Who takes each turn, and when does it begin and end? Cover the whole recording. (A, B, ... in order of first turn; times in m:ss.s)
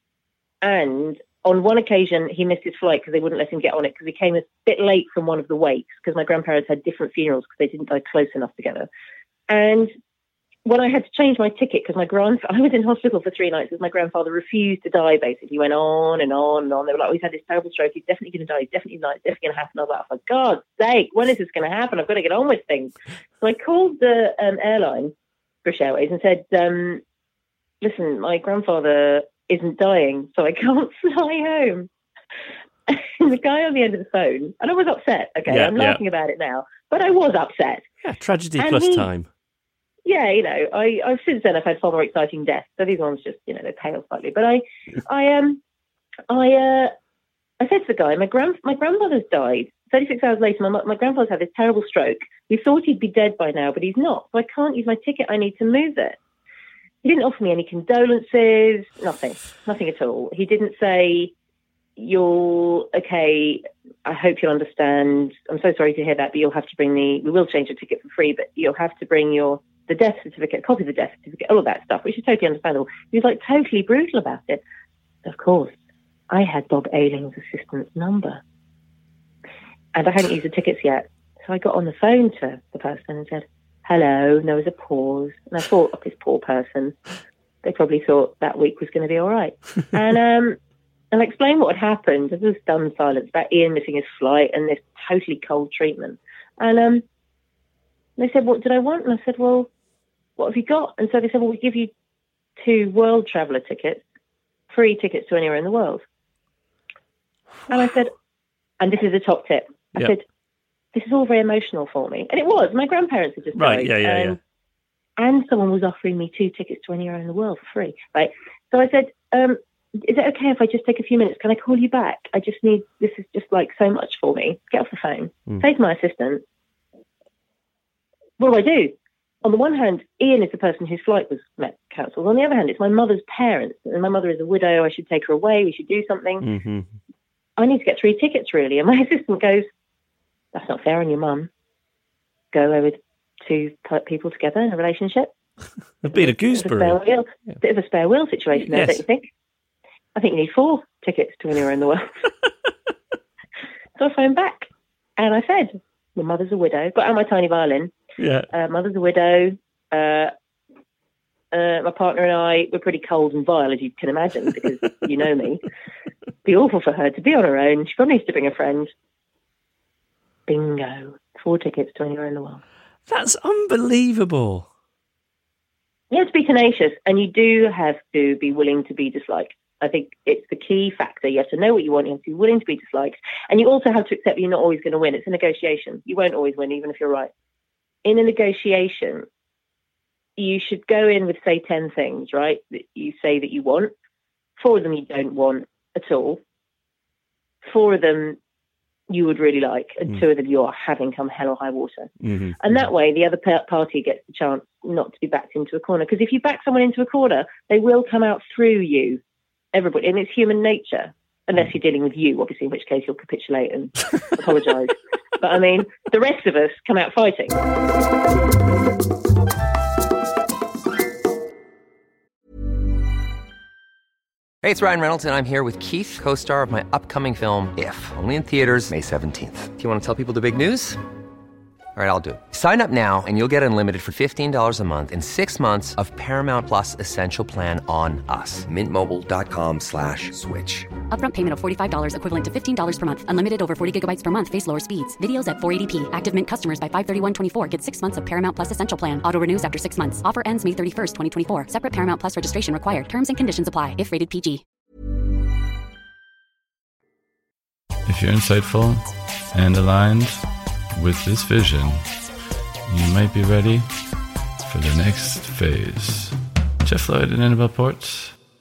0:00.6-0:08.9 A
0:09.5-0:09.9 A
0:10.6-0:25.1 A
0:25.6-0:27.0 A
0:27.8-0:31.9 A
0:32.9-0:37.8 A
0:35.5-0:36.0 B
0:38.0-0:39.3 B
0:38.6-0:39.1 A
0:40.0-0:45.6 A
0:46.3-0:46.9 A
0:47.6-0:56.2 A
0:57.0-1:01.3 A
1:02.0-1:14.6 A
1:15.2-1:15.7 A
1:16.3-1:18.4 A
1:19.9-1:27.0 A
1:27.6-1:30.6 A
1:31.1-1:37.0 A
1:38.2-1:39.7 A
1:40.4-1:41.9 A
1:42.6-1:44.0 A
1:44.7-1:46.0 A
1:47.7-1:48.1 A
1:48.8-1:50.2 A
1:50.9-1:54.4 A
1:53.5-1:54.4 B
1:55.2-2:06.4 A
2:08.4-2:16.4 A
2:16.4-2:16.9 B
2:17.6-2:19.6 A
2:20.5-2:21.5 A
2:22.5-2:25.3 A
2:26.0-2:27.0 B
2:26.2-2:29.3 A
2:28.6-2:29.0 B
2:30.1-2:32.1 A
2:34.0-2:37.9 A
2:38.2-2:38.5 B
2:38.5-2:40.3 A
2:41.5-2:45.6 A
2:46.4-2:48.9 A
2:50.5-2:52.6 A
2:53.1-2:54.7 B
2:56.1-3:07.3 A
3:08.0-3:09.2 A
3:10.4-3:13.9 A
3:14.6-3:16.4 A
3:17.7-3:18.4 A
3:19.1-3:29.2 A
3:22.2-3:22.6 B
3:29.7-3:37.6 A
3:44.6-3:51.0 C
3:52.0-4:00.9 C
4:01.1-4:14.6 D
4:18.0-4:22.1 E
4:22.9-4:24.1 E
4:24.6-4:28.4 E